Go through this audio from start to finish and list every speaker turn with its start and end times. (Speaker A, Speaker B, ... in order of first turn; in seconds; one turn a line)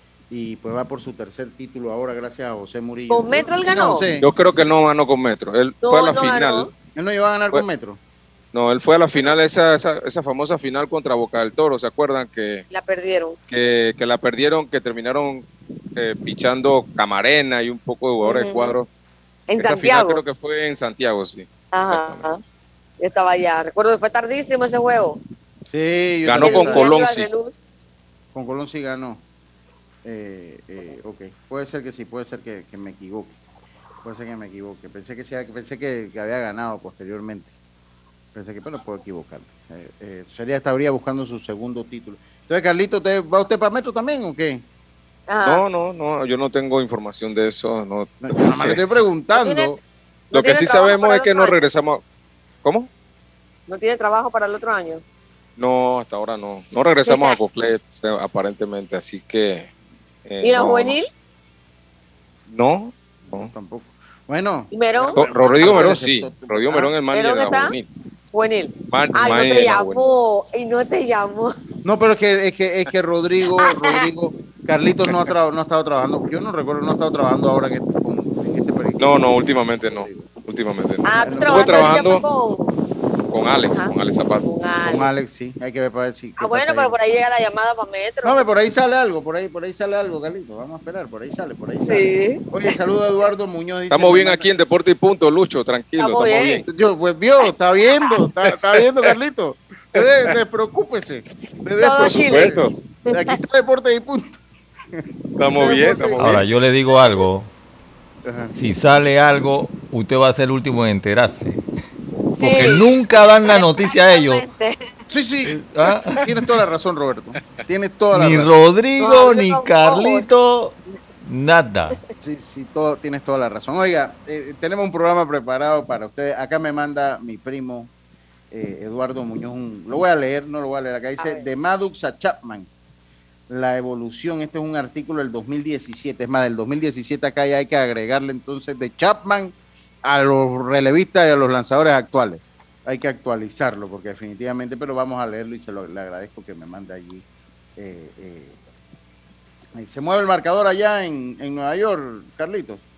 Speaker A: 0.3-4.3
Speaker B: 3.1-4.0
Speaker C: 4.2-6.7
Speaker B: 5.8-6.7
Speaker A: 6.9-8.0
Speaker C: 8.5-12.6
Speaker B: 12.7-13.4
Speaker C: 13.5-18.9
Speaker B: 18.2-18.7
Speaker B: 19.5-20.2
Speaker C: 19.6-22.3
Speaker B: 21.7-22.4
Speaker B: 23.0-25.2
Speaker A: 25.7-26.9
Speaker C: 26.2-27.3
Speaker B: 26.4-27.6
Speaker A: 28.3-29.2
Speaker A: 30.0-33.3
Speaker A: 34.0-37.5
Speaker A: 38.3-44.6
Speaker B: 45.3-45.6
Speaker C: 45.4-48.8
Speaker A: 48.2-49.8
Speaker B: 49.3-49.8
Speaker C: 50.3-52.0
Speaker B: 50.3-51.6
Speaker C: 52.6-52.9
Speaker B: 53.7-55.0
Speaker C: 55.6-59.7
Speaker B: 57.0-57.4
Speaker C: 60.2-61.0
Speaker B: 60.4-61.1
Speaker C: 62.5-63.5
Speaker A: 63.3-66.9
Speaker B: 64.7-65.2
Speaker C: 65.2-67.9
Speaker B: 67.1-67.8
Speaker B: 68.3-71.5
Speaker C: 68.9-70.0
Speaker A: 71.8-80.2
Speaker C: 79.0-82.2
Speaker B: 81.0-82.8
Speaker A: 81.2-82.0
Speaker C: 83.3-84.5
Speaker B: 84.4-85.1
Speaker A: 84.8-86.9
Speaker B: 86.4-88.5
Speaker A: 88.2-94.5
Speaker B: 91.9-92.4
Speaker C: 93.9-96.7
Speaker B: 96.0-96.7
Speaker A: 96.7-104.4
Speaker B: 101.8-103.4
Speaker C: 102.2-102.7
Speaker A: 104.9-106.4
Speaker C: 105.4-106.4
Speaker B: 105.6-106.2
Speaker D: 106.2-107.5
Speaker A: 108.2-108.5
Speaker D: 108.5-111.6
Speaker B: 112.4-112.9
Speaker D: 112.4-114.4
Speaker B: 113.4-114.9
Speaker A: 115.1-118.5
Speaker D: 115.4-116.3
Speaker D: 118.1-122.0
Speaker B: 119.0-120.3
Speaker A: 122.2-127.9
Speaker A: 128.5-132.7
Speaker B: 131.2-131.4
Speaker A: 133.5-147.2
Speaker A: 147.8-148.6
Speaker A: 149.8-152.8